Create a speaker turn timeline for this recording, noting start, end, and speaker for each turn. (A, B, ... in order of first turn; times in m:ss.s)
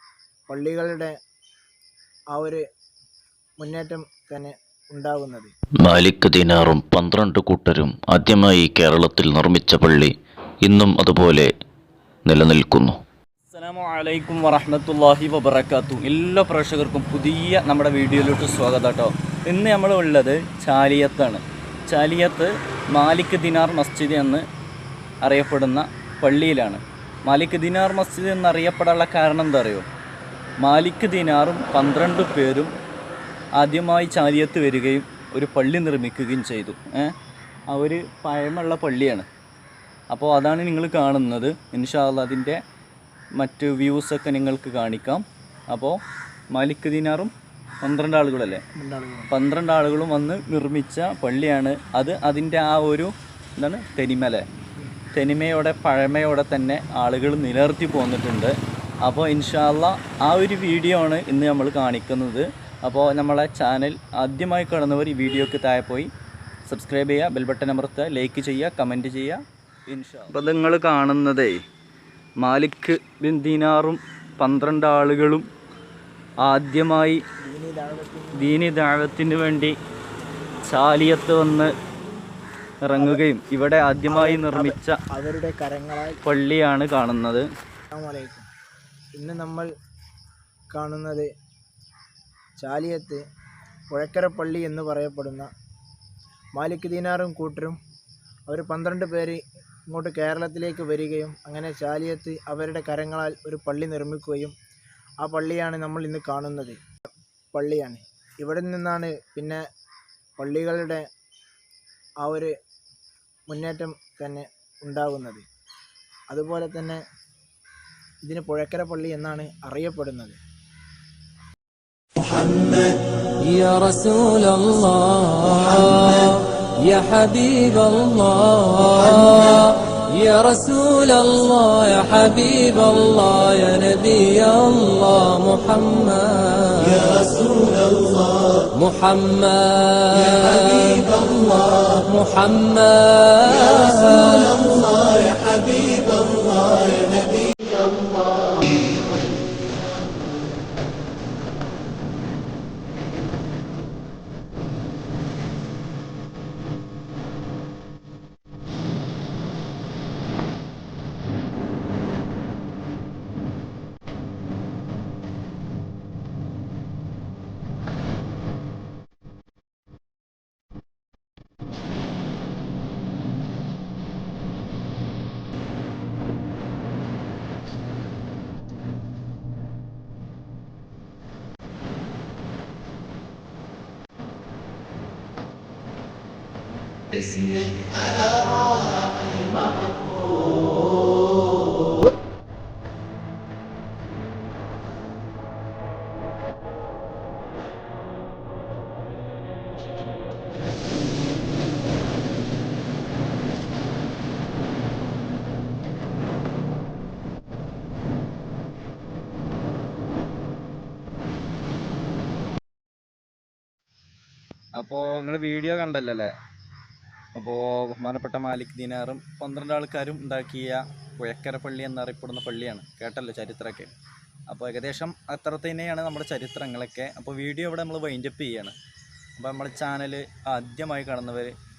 0:00.5-0:01.1 A
0:02.3-0:02.6 A
0:03.6-0:05.5 A
0:05.8-0:11.5 B
0:12.3-0:12.9 B
0:13.5-0:24.4 C
0:25.2-0:29.8 C
0:30.6-0:32.7 C
0:33.6-0:37.1 C
0:37.7-0:39.2 C
0:40.1-0:42.6 C
0:43.4-0:46.0 C
0:46.5-0:48.6 C
0:48.8-0:49.3 A
0:49.3-0:54.4 C
0:55.1-1:06.1 C
1:06.7-1:11.6 C
1:12.4-1:15.4 C
1:16.4-1:17.2 C
1:17.4-1:18.6 A
1:18.4-1:19.7 C
1:20.7-1:21.7 C
1:22.8-1:25.0 C
1:22.9-1:23.2 A
1:24.1-1:26.2 A
1:26.2-1:27.4 C
1:27.9-1:28.5 A
1:29.2-1:29.7 A
1:30.7-1:31.3 A
1:32.6-1:33.2 A
1:33.9-1:35.5 A
1:36.5-1:37.8 A
1:38.5-1:44.5 A
1:45.2-1:46.8 A
1:47.5-1:49.6 A
1:50.4-1:51.0 A
1:52.2-1:52.5 A
1:53.5-1:55.4 A
1:56.3-1:57.0 A
1:58.2-2:00.4 A
2:02.3-2:26.3 D
3:34.7-3:36.3 C
3:37.3-3:43.9 C
3:44.5-3:48.7 C
3:49.4-3:51.5 C